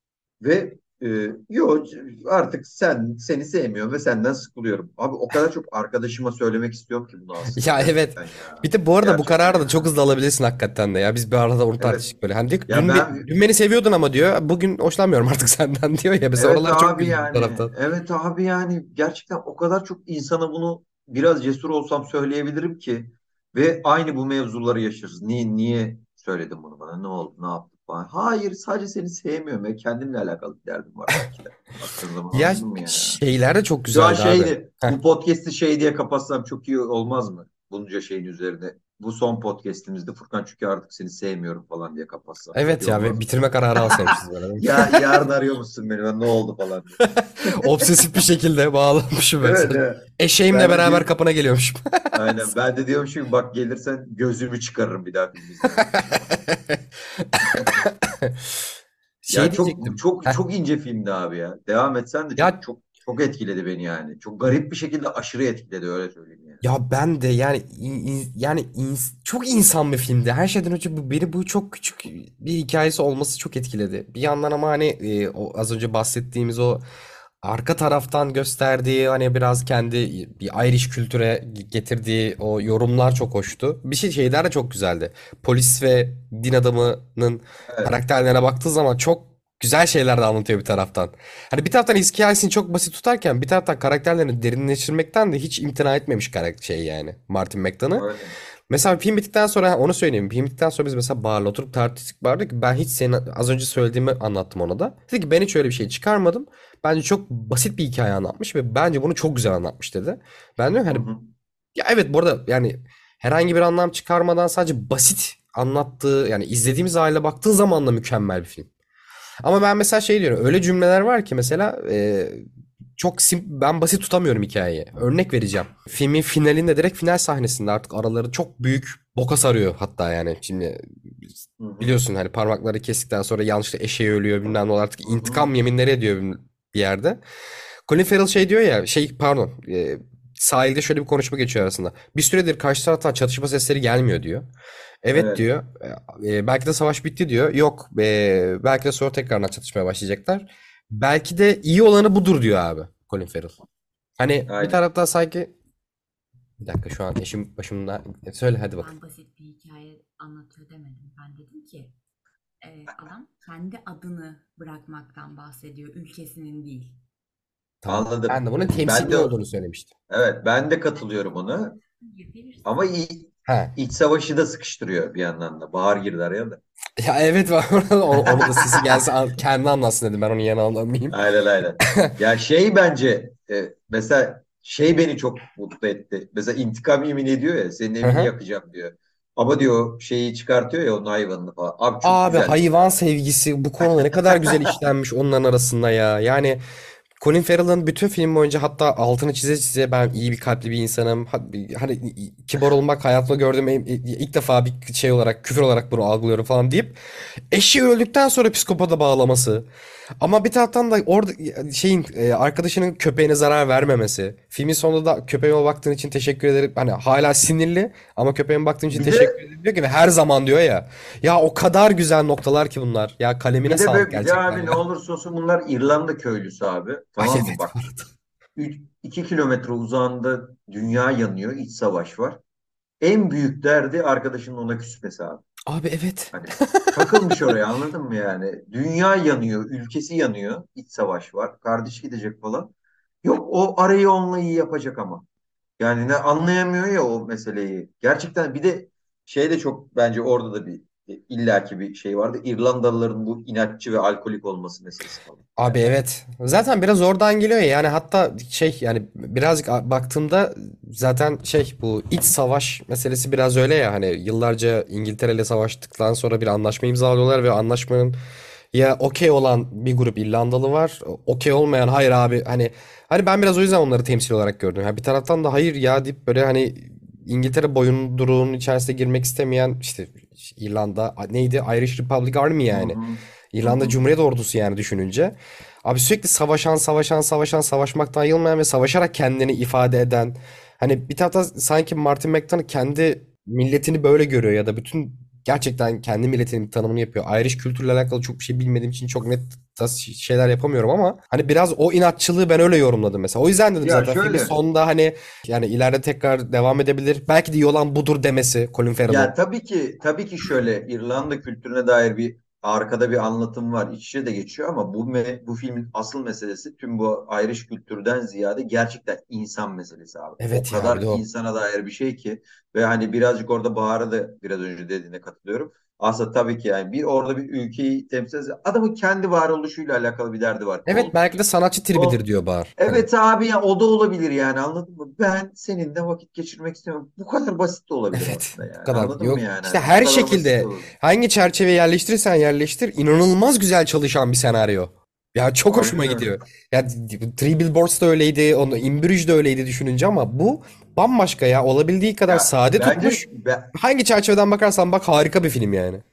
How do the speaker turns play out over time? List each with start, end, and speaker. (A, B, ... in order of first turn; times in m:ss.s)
0:00.4-0:09.9 A
0:07.5-0:17.7 B
0:11.8-0:12.1 A
0:12.7-0:13.3 A
0:16.4-0:33.2 A
0:32.3-0:35.0 B
0:33.9-0:48.1 A
0:42.5-0:45.1 B
0:47.0-0:52.5 B
0:49.4-0:51.1 A
0:52.1-0:56.4 A
0:56.4-0:58.7 B
0:57.4-0:57.7 A
0:59.3-1:00.4 B
0:59.3-1:06.6 A
1:06.6-1:16.8 B
1:17.4-1:38.1 B
1:27.7-1:28.0 A
1:38.0-1:38.4 A
1:38.7-1:51.1 B
1:50.9-1:51.3 A
1:51.8-1:58.7 B
1:59.4-2:02.5 B
2:03.0-2:10.9 B
2:11.6-2:12.0 A
2:11.8-2:17.2 B
2:15.1-2:15.5 A
2:17.9-2:24.5 B
2:25.0-2:33.6 B
2:25.1-2:25.4 A
2:34.2-2:35.5 B
2:34.5-2:34.8 A
2:36.6-2:38.9 B
2:38.8-2:42.0 C
2:42.6-2:47.0 C
2:47.8-2:49.9 B
2:47.9-2:49.3 A
2:50.1-2:51.8 A
2:52.0-2:52.7 C
2:52.6-2:56.6 A
2:53.5-2:53.7 B
2:57.0-3:01.2 B
3:01.1-3:12.8 A
3:08.0-3:08.3 B
3:12.0-3:16.6 B
3:14.0-3:14.6 A
3:17.2-3:27.0 B
3:27.5-3:29.7 B
3:30.2-3:44.8 B
3:38.9-3:39.4 A
3:43.7-3:48.0 A
3:47.2-3:48.1 B
3:48.6-3:52.4 A
3:53.0-3:55.4 A
3:55.7-3:57.5 B
3:56.3-4:02.7 A
4:03.2-4:05.3 A
4:05.8-4:15.8 A
4:15.6-4:28.2 B
4:28.7-4:43.0 B
4:42.7-4:44.0 A
4:43.5-5:09.3 B
5:03.8-5:04.6 A
5:09.1-5:31.2 A
5:20.4-5:21.2 B
5:30.9-5:33.1 B
5:31.9-5:32.2 A
5:32.8-5:40.9 A
5:38.1-5:53.2 B
5:45.7-5:46.3 A
5:52.3-5:53.7 A
5:53.7-5:56.0 B